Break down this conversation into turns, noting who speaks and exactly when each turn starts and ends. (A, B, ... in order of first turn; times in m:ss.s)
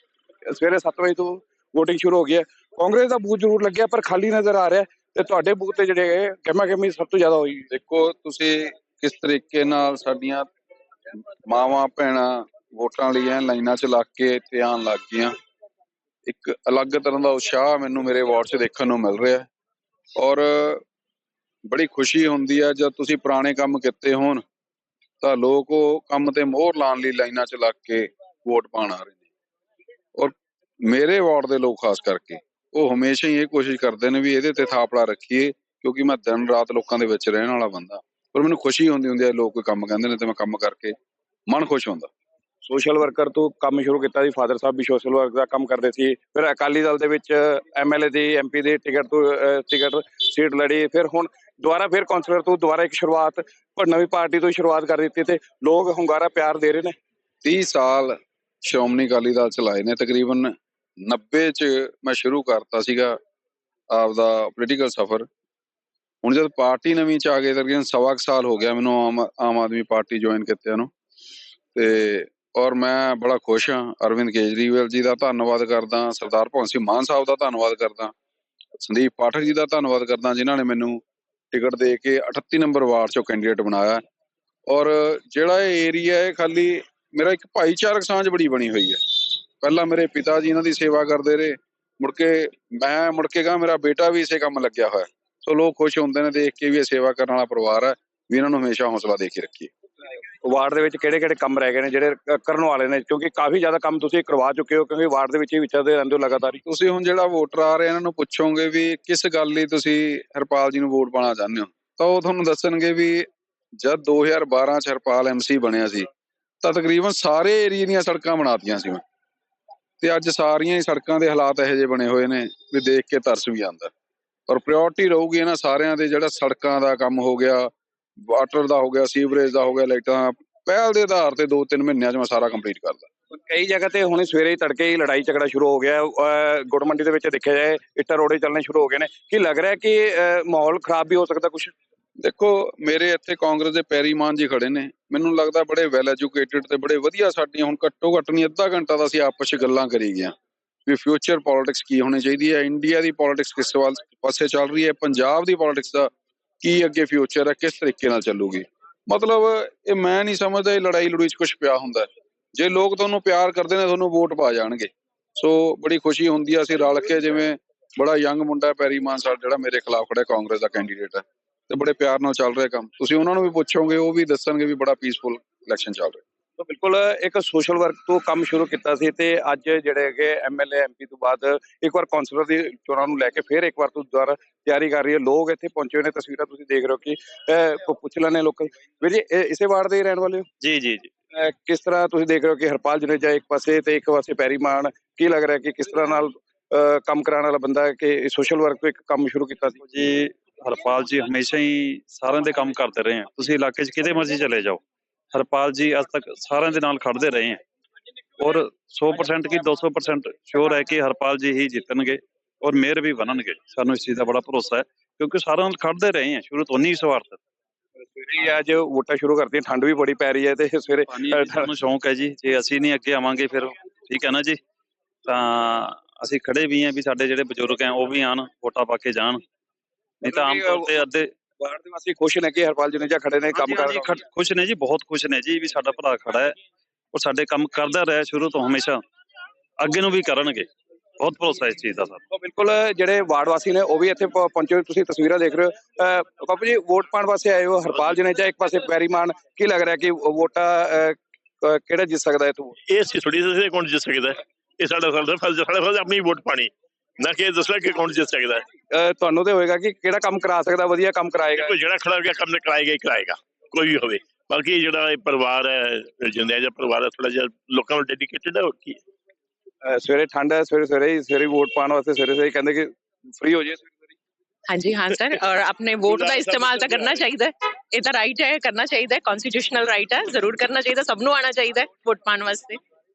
0:00.5-0:07.7 A
0:07.7-0:10.5 B
0:11.5-0:15.3 B
0:16.2-0:19.5 B
0:20.2-0:20.8 B
0:21.7-0:24.4 B
0:25.2-0:29.2 B
0:30.2-0:41.0 B
0:41.5-0:42.1 B
0:42.6-0:57.0 A
0:57.4-1:03.2 B
1:03.9-1:05.3 B
1:06.2-1:10.9 B
1:11.8-1:18.1 B
1:18.8-1:24.0 B
1:24.7-1:39.7 B
1:40.4-1:46.6 A
1:46.7-1:53.3 B
1:53.8-1:56.1 B
1:56.6-1:59.0 B
2:00.0-2:03.9 B
2:04.5-2:07.7 B
2:08.2-2:13.1 B
2:13.3-2:21.7 A
2:22.2-2:30.3 B
2:30.9-2:36.1 B
2:36.6-2:56.2 B
2:56.6-3:10.5 A
3:10.6-3:11.1 C
3:11.3-3:19.8 A
3:19.9-3:24.8 C
3:25.3-3:27.6 C
3:28.4-3:37.4 C
3:38.1-3:41.7 A
3:41.1-3:44.6 C
3:45.3-3:49.4 C
3:50.2-3:51.3 C
3:50.3-3:51.0 A
3:51.6-3:54.2 A
3:53.5-3:56.5 C
3:57.1-3:59.0 C
3:59.8-4:00.7 C
4:01.2-4:02.2 C
4:02.3-4:12.8 A
4:12.9-4:18.6 D
4:18.9-4:21.7 A
4:21.6-4:29.0 D
4:29.8-4:34.0 A
4:34.7-4:42.8 E
4:36.0-4:37.2 D